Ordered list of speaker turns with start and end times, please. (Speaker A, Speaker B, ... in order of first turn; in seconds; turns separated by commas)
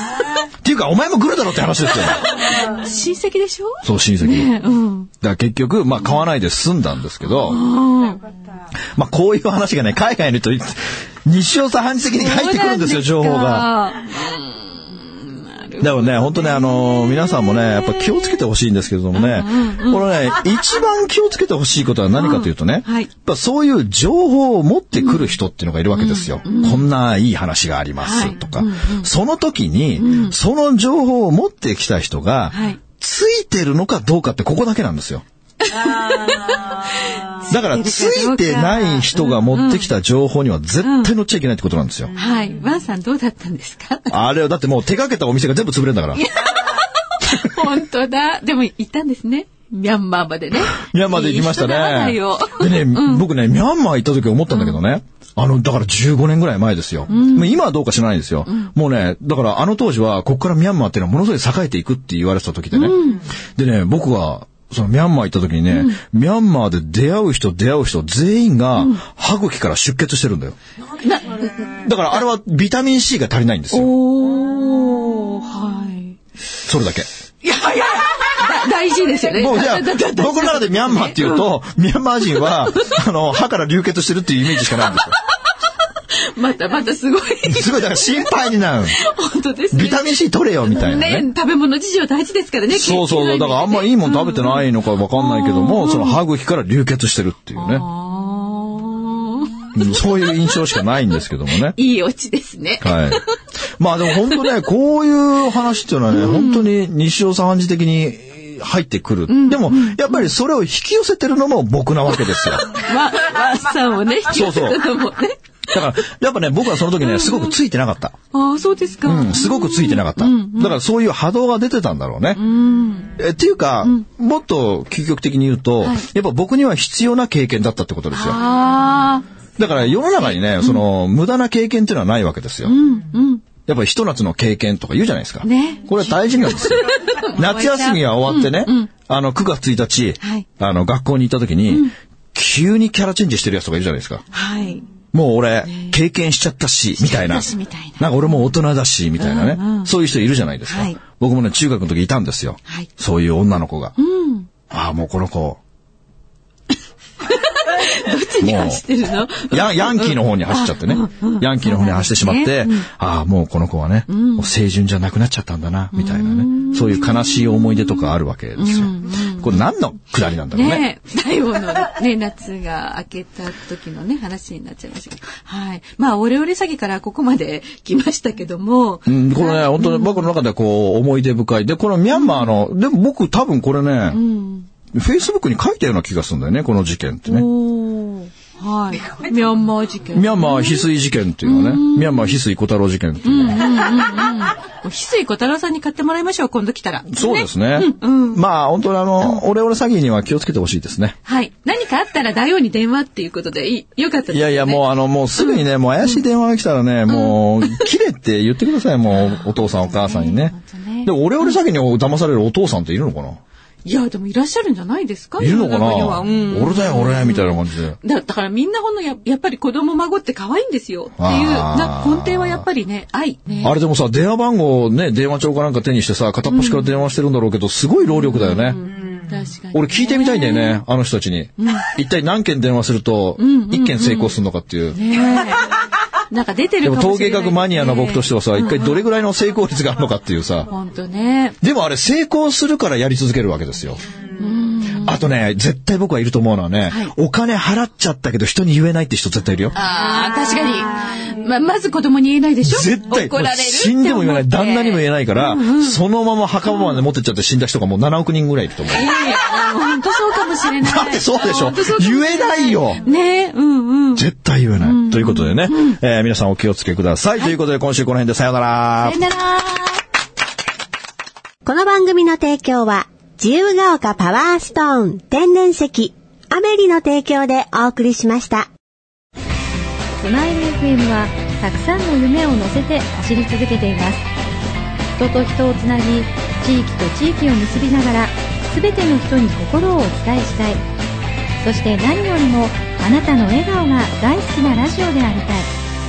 Speaker A: 0.6-2.3, Speaker B: 2.0-5.1, Speaker A: 3.8-4.5, Speaker A: 5.2-7.6, Speaker B: 7.2-8.2, Speaker A: 8.7-13.7, Speaker B: 12.1-16.3, Speaker A: 15.8-35.2, Speaker B: 17.4-17.9, Speaker B: 19.1-20.1, Speaker B: 22.1-23.1, Speaker B: 25.0-25.2, Speaker B: 25.9-26.9, Speaker B: 28.0-29.1, Speaker B: 29.9-30.4, Speaker B: 32.5-32.8, Speaker B: 35.6-39.9, Speaker A: 37.5-42.1, Speaker B: 40.8-41.1, Speaker B: 42.1-44.2, Speaker A: 44.1-46.2, Speaker B: 46.1-53.3, Speaker A: 50.7-70.5, Speaker B: 54.5-54.8, Speaker B: 57.1-57.6, Speaker B: 58.5-58.7, Speaker B: 62.7-63.3, Speaker B: 65.7-66.0, Speaker B: 68.8-69.0, Speaker B: 70.9-71.7, Speaker A: 71.8-73.9, Speaker B: 73.7-76.2, Speaker A: 76.6-77.1, Speaker B: 77.4-81.5, Speaker A: 79.3-85.2, Speaker B: 82.3-83.0, Speaker B: 84.7-85.1, Speaker B: 86.1-88.4, Speaker A: 87.4-89.0, Speaker B: 88.9-96.2, Speaker A: 89.7-91.3, Speaker A: 92.7-97.8, Speaker B: 97.5-100.0, Speaker A: 99.7-101.8, Speaker B: 101.6-103.3, Speaker A: 102.8-103.2, Speaker A: 103.8-112.8, Speaker B: 106.1-106.7, Speaker B: 109.3-110.3, Speaker B: 112.7-115.4, Speaker A: 114.3-114.8, Speaker A: 115.7-118.2, Speaker B: 117.0-117.5, Speaker B: 118.3-120.8, Speaker A: 119.0-122.4, Speaker B: 122.3-123.2, Speaker A: 123.1-128.4, Speaker B: 125.8-126.1, Speaker B: 128.1-129.2, Speaker A: 129.6-132.7, Speaker B: 129.8-130.8, Speaker B: 132.6-133.4, Speaker A: 133.6-144.2, Speaker B: 135.4-138.9, Speaker B: 140.2-140.4, Speaker B: 141.7-141.9, Speaker B: 144.3-144.9, Speaker A: 145.1-153.9, Speaker B: 145.6-146.0, Speaker B: 147.0-148.5, Speaker B: 149.2-149.9, Speaker B: 150.7-151.0, Speaker B: 154.0-154.5, Speaker A: 154.7-155.6, Speaker B: 157.2-162.9, Speaker A: 158.4-158.8, Speaker A: 159.5-170.8, Speaker B: 164.1-164.5, Speaker B: 165.9-169.6, Speaker B: 170.5-180.3, Speaker A: 179.1-184.2, Speaker B: 182.1-182.6, Speaker B: 184.1-184.7, Speaker A: 184.9-187.5, Speaker B: 187.3-190.9, Speaker A: 190.1-193.8, Speaker B: 191.4-192.4, Speaker B: 193.2-198.4, Speaker A: 197.1-201.2, Speaker B: 201.2-206.2, Speaker A: 204.3-213.4, Speaker B: 207.1-207.9, Speaker B: 209.1-211.6, Speaker B: 213.8-223.8, Speaker A: 215.4-218.0, Speaker A: 221.2-222.6, Speaker A: 223.6-228.8, Speaker B: 226.5-226.9, Speaker B: 228.1-230.8, Speaker A: 229.7-235.0, Speaker B: 231.6-231.9, Speaker B: 233.4-234.4, Speaker B: 234.9-235.7, Speaker B: 236.3-239.0, Speaker A: 236.8-240.7, Speaker B: 240.7-241.6, Speaker A: 241.6-244.0, Speaker B: 244.4-245.2, Speaker A: 245.0-249.8, Speaker B: 246.9-247.1, Speaker B: 249.7-256.0, Speaker A: 252.6-259.3, Speaker B: 256.7-257.0, Speaker B: 258.9-264.2, Speaker A: 260.8-263.0, Speaker A: 264.1-269.2, Speaker B: 264.8-266.0, Speaker B: 269.0-270.0, Speaker C: 271.6-278.7, Speaker D: 280.2-284.2, Speaker D: 285.2-290.8, Speaker D: 291.6-295.7